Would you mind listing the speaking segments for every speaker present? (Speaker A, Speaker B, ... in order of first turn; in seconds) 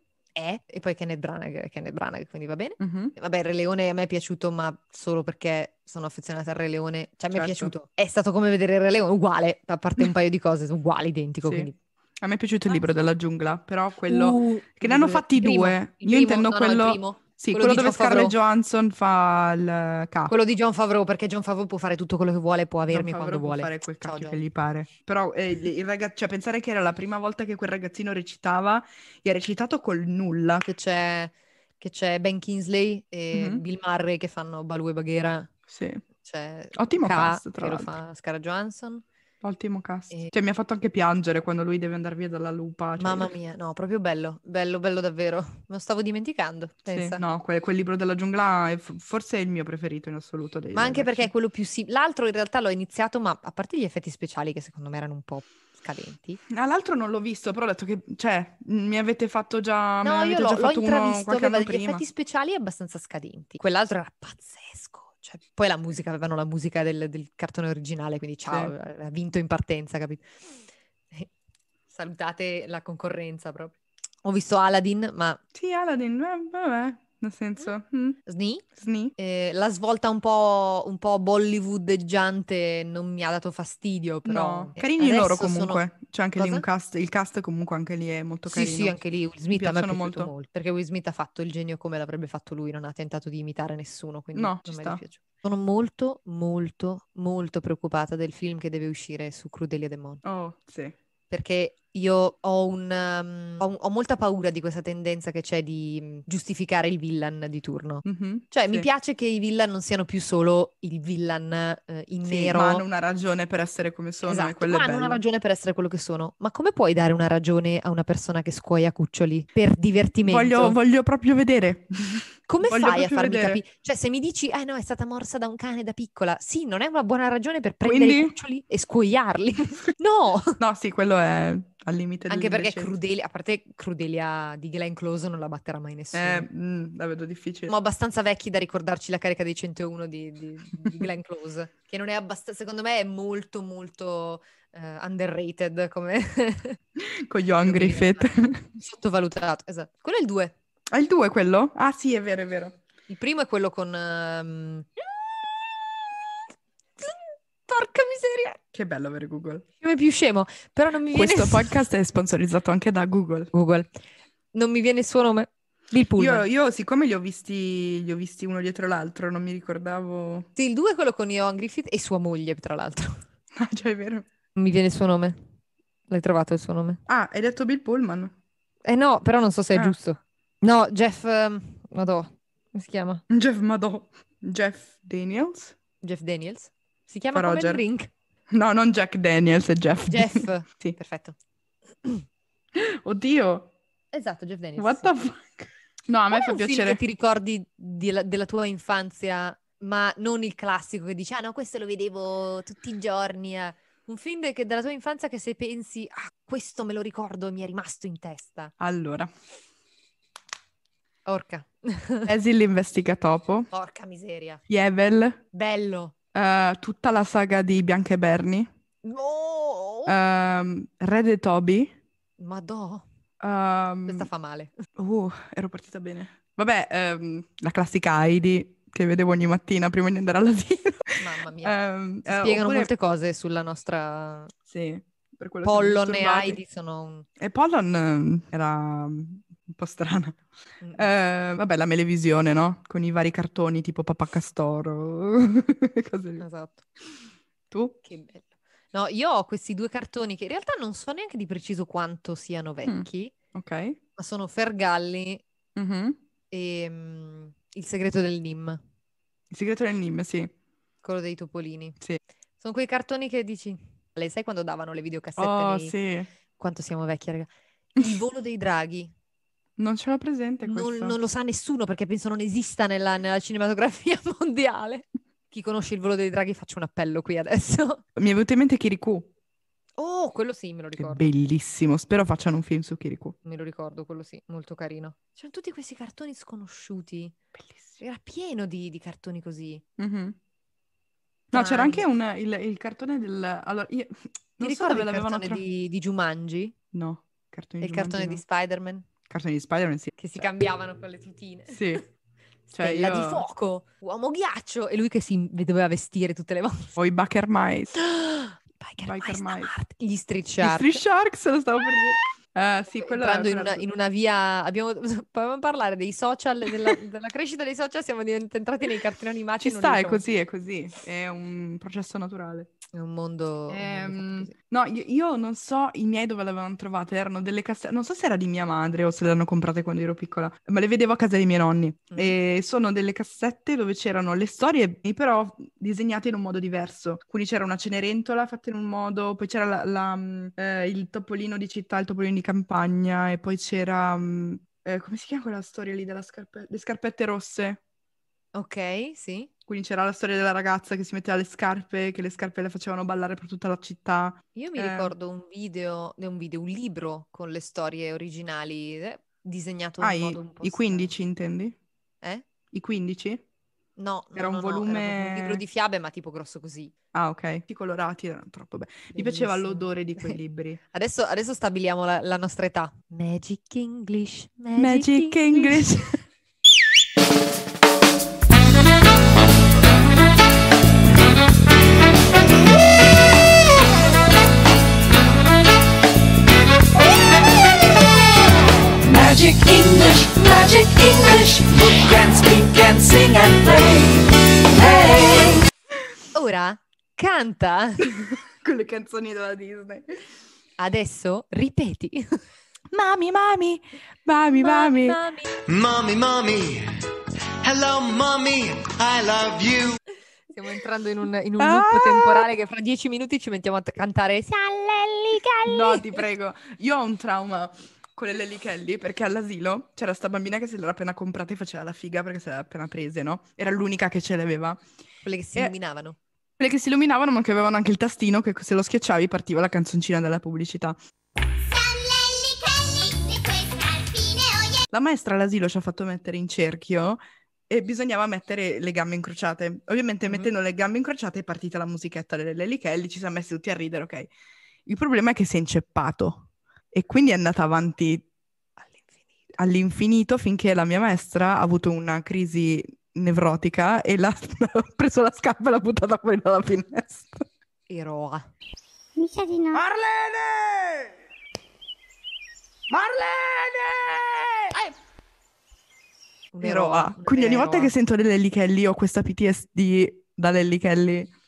Speaker A: 0.3-11.7, 14.1-18.3, 20.3-24.4, 30.6-35.5, 36.2-39.0, 43.0-47.2, 50.7-56.4, 60.0-70.3, 71.9-73.7, 74.2-75.4, 78.2-78.6, 79.2-86.6, 88.5-100.2, 101.3-112.8, 114.2-120.8, 122.5-130.6, 132.3-136.5, 137.7-146.8, 147.6-150.5, 153.1-154.9, 157.0-158.6, 159.8-161.8, 163.5-163.9, 164.5-166.4, 170.6-173.2, 174.6-175.4, 176.1-177.0, 178.8-183.2, 186.0-188.1, 190.1-191.4, 194.1-195.1, 196.3-208.7, 211.2-212.3, 213.7-214.6, 215.5-216.1, 219.0-220.2, 222.4-223.0, 224.1-224.8, 231.2-234.5, 235.6-237.3, 240.8-241.1, 246.4-246.8, 248.0-253.3, 254.2-255.4, 256.5-258.8, 261.0-262.0, 262.6-265.9, 266.6-269.1, 270.6-278.0, 280.0-281.3, 283.4-287.3, 288.0-289.8, 291.5-292.1, 294.6-296.7, 297.8-299.1, 300.2-302.0, 302.7-307.0, 308.0-311.0, 312.9-320.2, 322.9-324.5, 332.1-332.4, 348.5-349.5, 354.5-361.1, 364.0-366.9, 369.1-370.4, 370.9-375.8, 396.3-398.1, 400.8-402.4, 404.6-405.5, 410.5-416.2, 425.2-426.2, 448.8-449.6, 457.9-458.4, 466.5-467.9
Speaker B: 2.8-3.1, 7.3-7.7, 11.4-11.7, 12.2-20.3, 22.9-30.6, 33.3-33.6, 35.7-36.0, 36.8-37.9, 39.4-43.3, 46.9-51.3, 56.5-62.0, 68.5-68.7, 75.5-78.2, 78.8-79.1, 84.2-89.0, 89.5-90.3, 94.3-95.0, 100.2-100.9, 108.0-108.9, 112.2-115.2, 120.2-123.6, 127.8-128.3, 130.6-132.9, 136.1-137.7, 147.0-148.6, 150.9-152.8, 158.7-159.6, 161.1-163.5, 166.2-170.5, 173.5-174.2, 177.1-178.3, 183.3-185.7, 187.3-187.8, 188.5-191.0, 192.7-193.7, 194.8-197.0, 208.8-209.3, 212.2-213.7, 214.7-215.4, 216.3-218.7, 220.1-221.9, 223.4-224.3, 225.0-232.9, 234.7-236.6, 237.4-240.4, 240.9-246.4, 247.7-247.9, 252.9-254.0, 255.8-256.2, 259.5-260.5, 265.4-266.3, 269.8-271.2, 278.1-279.3, 281.0-283.4, 287.6-288.0, 290.0-290.4, 291.5-295.6, 296.9-298.4, 299.3-300.4, 301.7-302.0, 302.7-303.4, 307.0-307.9, 309.0-309.7, 310.6-313.9, 319.6-322.7, 323.7-347.8, 349.7-355.1, 360.0-361.8, 362.7-363.4, 364.3-365.6, 367.1-370.8, 374.8-376.2, 398.0-400.1, 402.9-405.2, 411.6-412.5, 415.6-424.8, 426.6-430.9, 434.9-444.3, 444.9-448.2, 449.6-457.4, 459.7-461.0, 462.9-464.9, 466.6-471.3
Speaker C: 389.1-391.7, 392.7-394.0
Speaker D: 405.7-406.8, 407.6-410.0
Speaker E: 431.7-434.8, 459.2-459.8